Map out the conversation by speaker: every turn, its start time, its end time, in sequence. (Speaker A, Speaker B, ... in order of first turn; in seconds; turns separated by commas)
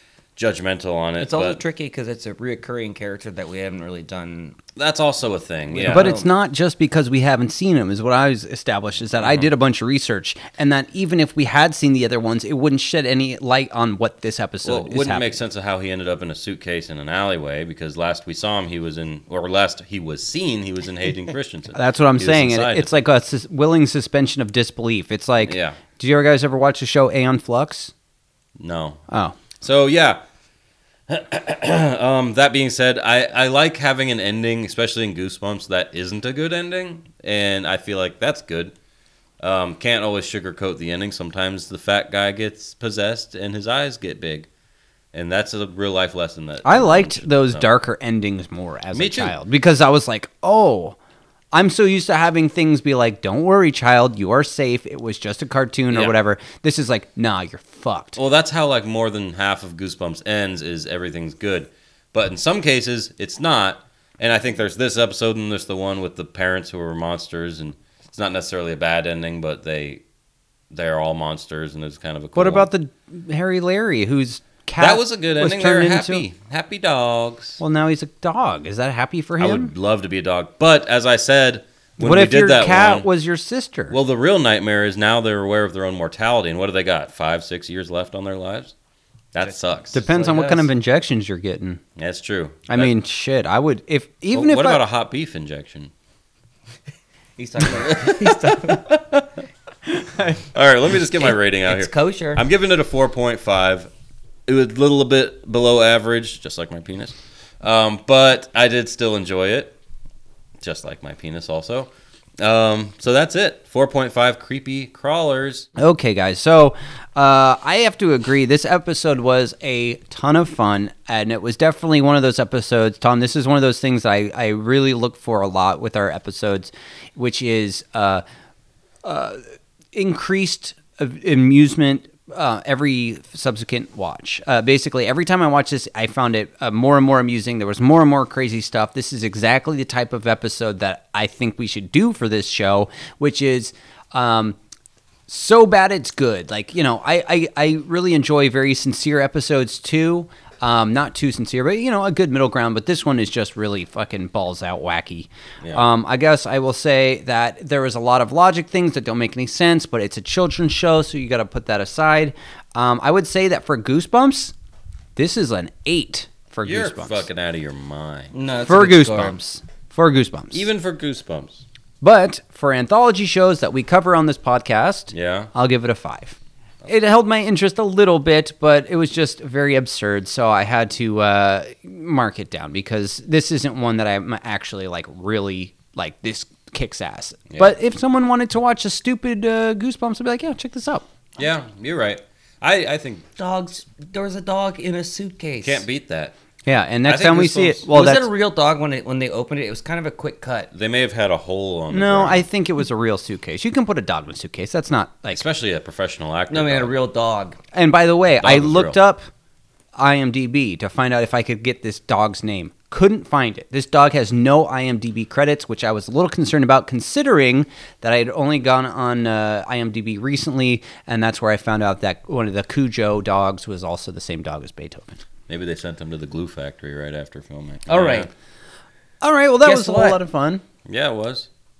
Speaker A: 0.3-1.6, Speaker B: 1.2-4.6, Speaker A: 4.8-6.2, Speaker B: 5.7-6.3, Speaker C: 5.9-15.4, Speaker A: 9.2-9.5, Speaker A: 14.6-23.0, Speaker C: 21.7-27.9, Speaker A: 25.4-25.8, Speaker A: 28.6-29.0, Speaker C: 29.1-29.3, Speaker A: 29.6-30.2, Speaker A: 31.1-38.7, Speaker A: 39.4-44.5, Speaker A: 45.1-47.7, Speaker C: 46.6-51.0, Speaker A: 48.9-49.4, Speaker C: 51.5-58.2, Speaker A: 55.9-56.2, Speaker A: 58.1-70.0, Speaker A: 70.7-72.7, Speaker C: 72.3-76.2, Speaker A: 74.8-77.6, Speaker C: 77.6-79.7, Speaker A: 79.4-83.1, Speaker C: 82.0-84.0, Speaker A: 83.9-88.7, Speaker A: 89.3-90.0, Speaker B: 89.4-90.7, Speaker C: 89.9-91.8, Speaker A: 92.0-92.9, Speaker C: 92.7-94.8, Speaker A: 94.3-95.9, Speaker B: 97.4-99.0, Speaker A: 97.6-99.3, Speaker C: 99.9-100.4, Speaker A: 100.5-103.9, Speaker B: 101.1-102.4, Speaker A: 104.5-109.8, Speaker A: 110.6-115.7, Speaker C: 115.8-128.2, Speaker C: 129.0-129.4, Speaker C: 129.9-144.6, Speaker C: 145.3-164.5, Speaker A: 155.6-155.9, Speaker C: 165.2-167.3, Speaker A: 166.6-168.3, Speaker B: 168.3-169.4, Speaker C: 168.7-170.7, Speaker A: 170.5-171.6, Speaker C: 172.0-191.1, Speaker A: 175.1-175.5, Speaker A: 191.4-193.2, Speaker B: 193.4-195.8, Speaker A: 195.6-196.3, Speaker C: 196.7-198.3, Speaker A: 197.1-197.8, Speaker B: 197.9-200.7, Speaker A: 200.7-202.4, Speaker C: 201.9-205.4, Speaker A: 205.3-206.9, Speaker B: 206.5-207.6, Speaker C: 207.7-209.3, Speaker A: 208.4-209.0, Speaker C: 209.9-225.2, Speaker A: 225.5-228.3, Speaker B: 227.9-228.3, Speaker C: 229.2-230.6, Speaker B: 229.6-230.2, Speaker A: 230.8-231.5